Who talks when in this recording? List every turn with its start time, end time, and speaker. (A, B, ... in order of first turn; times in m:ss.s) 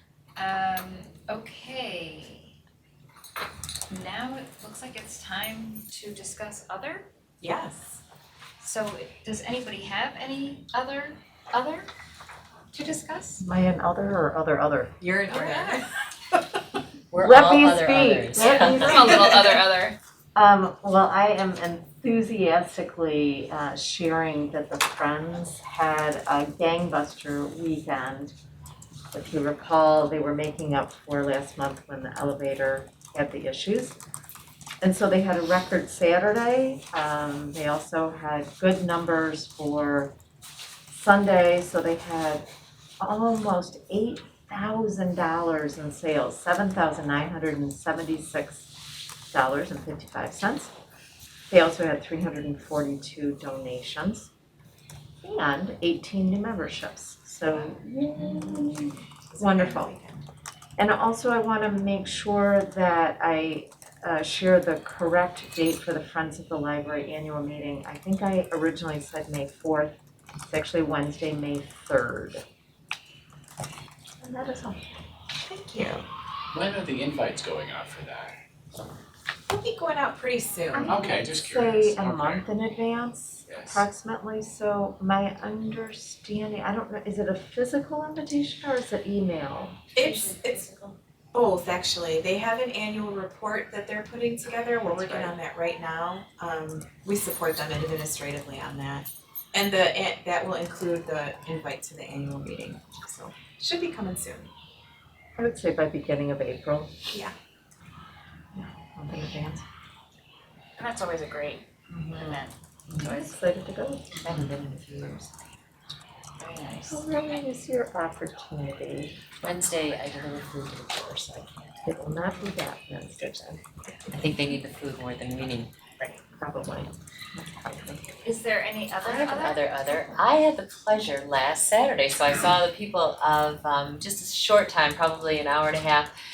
0:00.4-0:02.5 A
0:03.9-0:07.1 A
0:07.4-0:08.0 B
0:08.6-0:11.9 A
0:12.7-0:13.4 A
0:13.4-0:15.1 C
0:15.0-0:16.0 B
0:17.1-0:19.2 D
0:17.1-0:19.6 C
0:18.4-0:20.0 A
0:20.3-0:28.3 C
0:29.1-0:34.0 C
0:34.8-0:40.1 C
0:40.9-0:42.4 C
0:43.0-0:50.7 C
0:51.5-0:54.3 C
0:55.2-0:59.9 C
0:59.3-1:00.2 B
1:00.8-1:09.9 C
1:10.4-1:12.4 C
1:14.2-1:15.0 C
1:15.4-1:16.0 B
1:16.5-1:18.4 E
1:19.5-1:21.0 B
1:20.7-1:29.8 C
1:20.8-1:22.4 E
1:23.5-1:23.8 E
1:29.9-1:30.7 B
1:31.3-1:44.5 B
1:34.9-1:35.3 C
1:45.4-1:46.9 C
1:48.5-1:49.6 C
1:50.8-1:53.4 A
1:51.9-1:52.4 C
1:52.9-1:54.2 C
1:54.2-1:55.3 D
1:56.4-1:57.4 A
1:56.9-1:59.2 C
1:59.4-2:01.8 D
2:01.8-2:03.6 C
2:04.1-2:05.7 D
2:06.0-2:08.2 C
2:08.2-2:09.6 A
2:09.0-2:16.1 D